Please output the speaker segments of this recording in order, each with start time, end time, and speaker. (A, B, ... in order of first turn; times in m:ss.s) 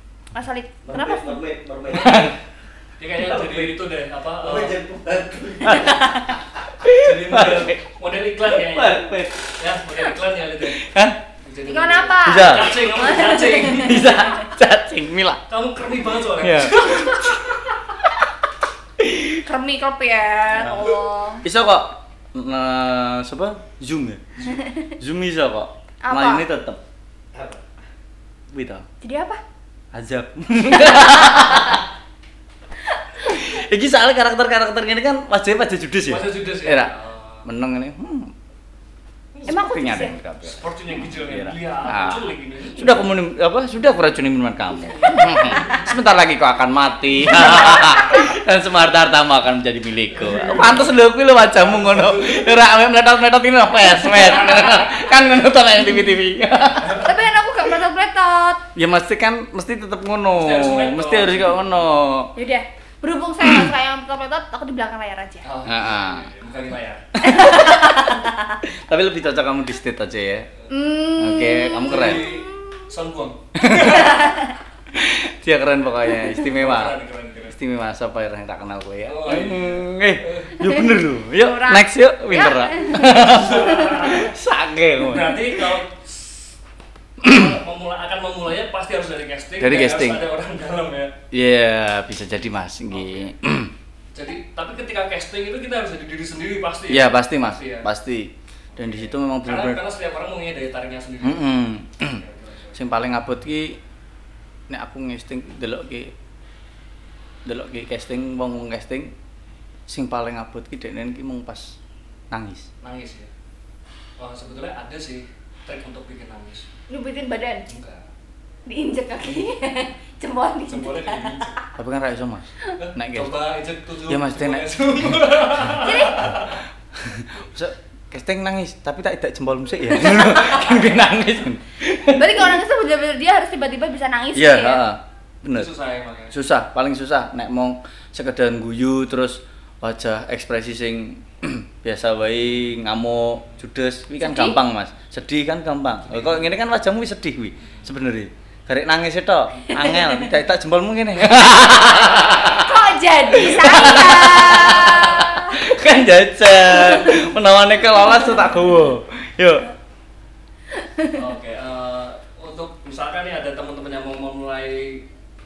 0:00.3-0:01.4 A
0:00.8-0:02.4 B
0:01.9-0:02.4 C
0:03.0-0:04.8 D
0:03.2-0:03.8 B
0:04.4-0:06.3 B
0:05.6-0:06.1 C
0:06.8-0:07.8 C
0:07.0-0:09.0 D
0:08.5-0:09.5 C
0:09.6-0:10.8 D
0:10.7-0:11.2 C
0:11.3-0:14.0 D
0:11.7-0:14.2 A
0:12.2-0:12.8 C
0:13.7-0:15.4 C
0:15.5-0:17.4 D
0:16.4-0:17.6 C
0:19.0-0:19.4 C
0:19.4-0:21.4 A
0:20.6-0:26.8 C
0:26.0-0:26.4 A
0:27.3-0:27.6 B
0:28.5-0:28.8 C
0:29.0-0:29.4 A
0:29.9-0:31.8 C
0:31.3-0:31.8 A
0:33.2-0:36.9 C
0:36.1-0:37.4 D
0:37.4-0:38.3 C
0:39.3-0:39.6 D
0:39.5-0:40.1 A
0:39.5-0:57.0 C
0:40.4-0:43.1 D
0:44.8-0:46.0 D
0:50.1-0:51.0 D
0:51.5-0:52.5 D
0:56.7-0:57.1 D
0:57.0-0:58.6 A
0:58.8-1:02.3 C
1:00.3-1:01.7 D
1:02.4-1:05.4 A
1:03.4-1:03.7 C
1:05.4-1:07.1 D
1:05.6-1:06.3 C
1:07.2-1:08.6 A
1:07.2-1:08.1 C
1:08.6-1:10.5 C
1:10.7-1:12.9 A
1:11.2-1:12.2 C
1:11.8-1:14.1 D
1:13.6-1:14.2 C
1:13.7-1:14.6 A
1:14.9-1:16.9 C
1:16.5-1:17.6 D
1:17.4-1:25.6 C
1:19.1-1:20.7 D
1:21.3-1:24.1 A
1:23.2-1:24.3 D
1:25.0-1:26.5 D
1:27.2-1:31.1 D
1:27.2-1:27.5 C
1:29.6-1:30.2 C
1:31.3-1:33.7 C
1:32.9-1:33.3 D
1:34.1-1:37.9 D
1:36.9-1:39.8 C
1:38.8-1:42.8 D
1:41.2-1:42.2 C
1:42.7-1:43.8 C
1:44.7-1:46.1 C
1:47.4-1:49.1 C
1:49.9-1:51.8 C
1:52.3-1:52.7 C
1:52.8-1:53.3 D
1:54.2-1:56.7 D
1:56.9-1:57.6 A
1:57.7-1:58.0 D
1:58.6-2:01.6 A
2:00.7-2:01.6 D
2:01.8-2:03.3 C
2:02.8-2:06.6 D
2:04.1-2:04.6 C
2:05.8-2:06.2 A
2:06.9-2:12.6 C
2:10.0-2:10.6 A
2:12.1-2:14.8 A
2:14.3-2:15.7 C
2:15.5-2:16.4 D
2:16.3-2:39.7 C
2:24.2-2:24.6 A
2:26.0-2:26.6 D
2:29.7-2:30.2 A
2:31.8-2:32.6 D
2:32.6-2:35.6 A
2:34.8-2:35.2 D
2:36.7-2:37.1 A
2:40.8-2:41.1 A
2:41.1-2:45.1 D